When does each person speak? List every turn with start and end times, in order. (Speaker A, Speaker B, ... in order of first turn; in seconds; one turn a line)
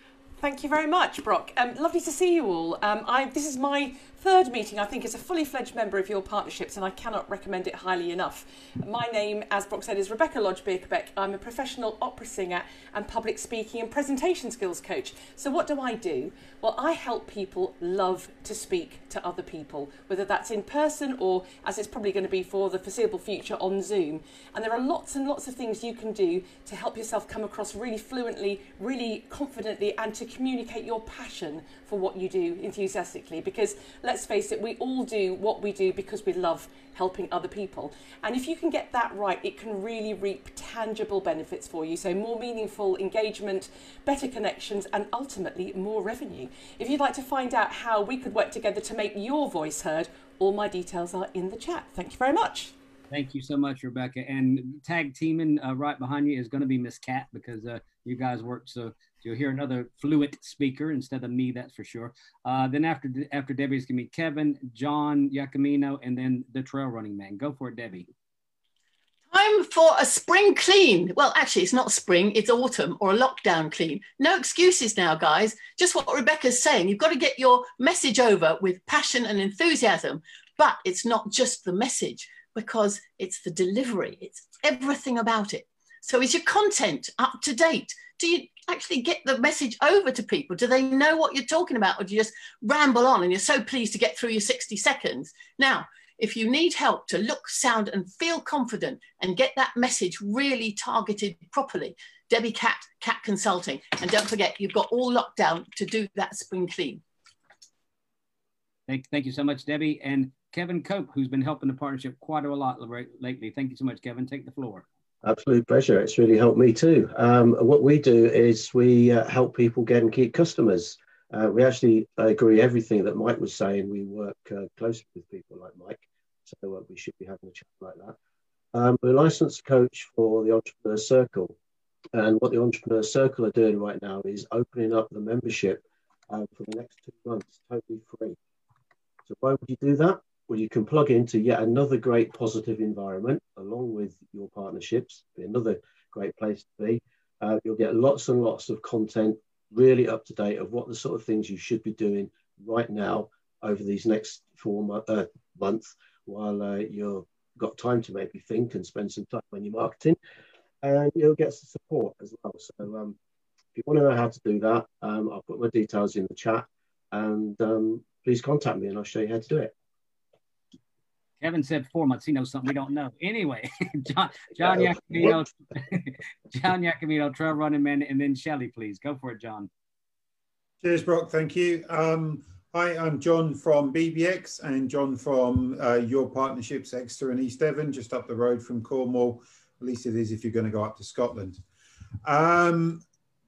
Speaker A: 0.4-52.7
Speaker B: 53.1-68.1
Speaker C: 69.3-107.0
Speaker B: 108.9-114.8
Speaker D: 115.2-128.1
Speaker D: 128.7-131.5
Speaker D: 132.1-138.3
Speaker D: 139.2-160.2
Speaker D: 160.8-163.2
Speaker D: 163.7-169.7
Speaker B: 171.4-179.7
Speaker D: 174.6-175.4
Speaker E: 180.8-191.6
Speaker E: 192.2-193.0